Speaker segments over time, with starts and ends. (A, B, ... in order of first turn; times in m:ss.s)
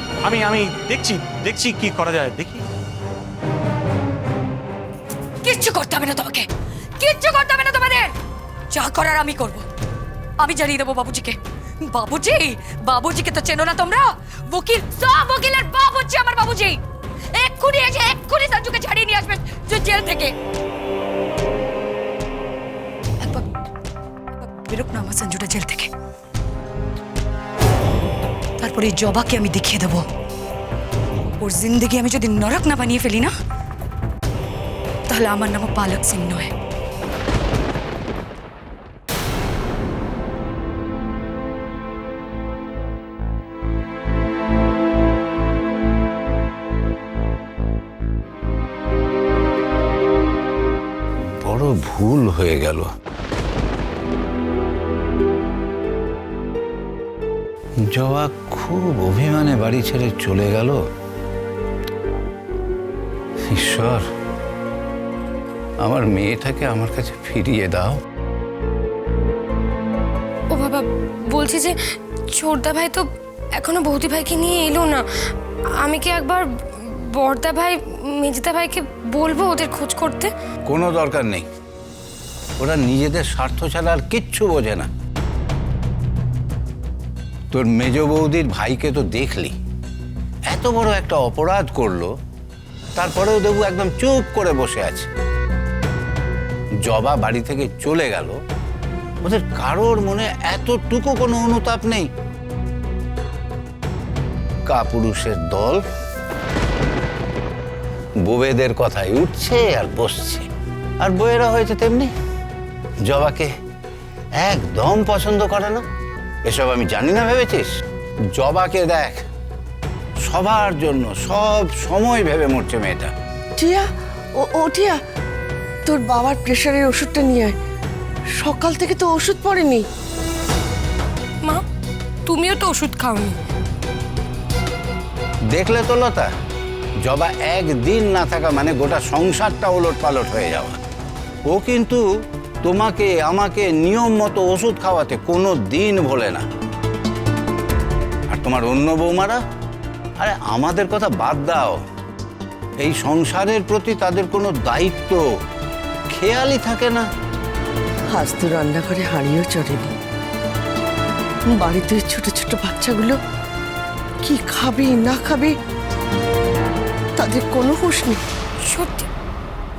0:00.2-0:02.6 A
0:05.4-0:06.5 B
0:07.0-0:08.1 B
0:08.7-0:09.6 B
0:10.4-0:11.4 B
0:11.9-0:16.8 B
0:17.3-0:20.3 B
0:24.4-0:25.9 B
0:28.6-0:30.0 B
0:31.4-0:33.3 B
0:35.1-0:36.5 B
0:51.4-0:52.9 C
0:57.8-1:00.8 C
1:03.5-1:04.1 C
1:05.8-1:08.0 C
1:10.5-1:11.8 D
1:12.3-1:15.0 D
1:15.8-1:20.3 D
1:20.7-1:21.5 C
1:22.6-1:24.9 C
1:27.5-1:29.5 C
1:30.5-1:32.1 C
1:33.0-1:35.1 C
1:36.8-1:38.4 C
1:39.2-1:42.1 C
1:44.7-1:45.8 C
1:48.2-1:50.5 C
1:51.0-1:52.1 C
1:53.0-1:53.5 C
1:54.4-1:55.8 C
1:56.4-1:57.7 C
1:58.3-1:59.2 C
2:00.2-2:03.1 C
2:03.6-2:05.0 E
2:05.8-2:07.6 E
2:08.4-2:09.8 E
2:12.2-2:13.4 D
2:15.5-2:16.3 C
2:17.0-2:20.8 C
2:21.4-2:22.0 C
2:22.6-2:26.4 C
2:28.3-2:29.4 C
2:30.2-2:31.8 C
2:32.8-2:35.2 C
2:36.1-2:37.0 C
2:38.1-2:39.9 E
2:41.5-2:43.2 E
2:44.2-2:45.6 E
2:47.2-2:48.2 E
2:48.6-2:49.1 D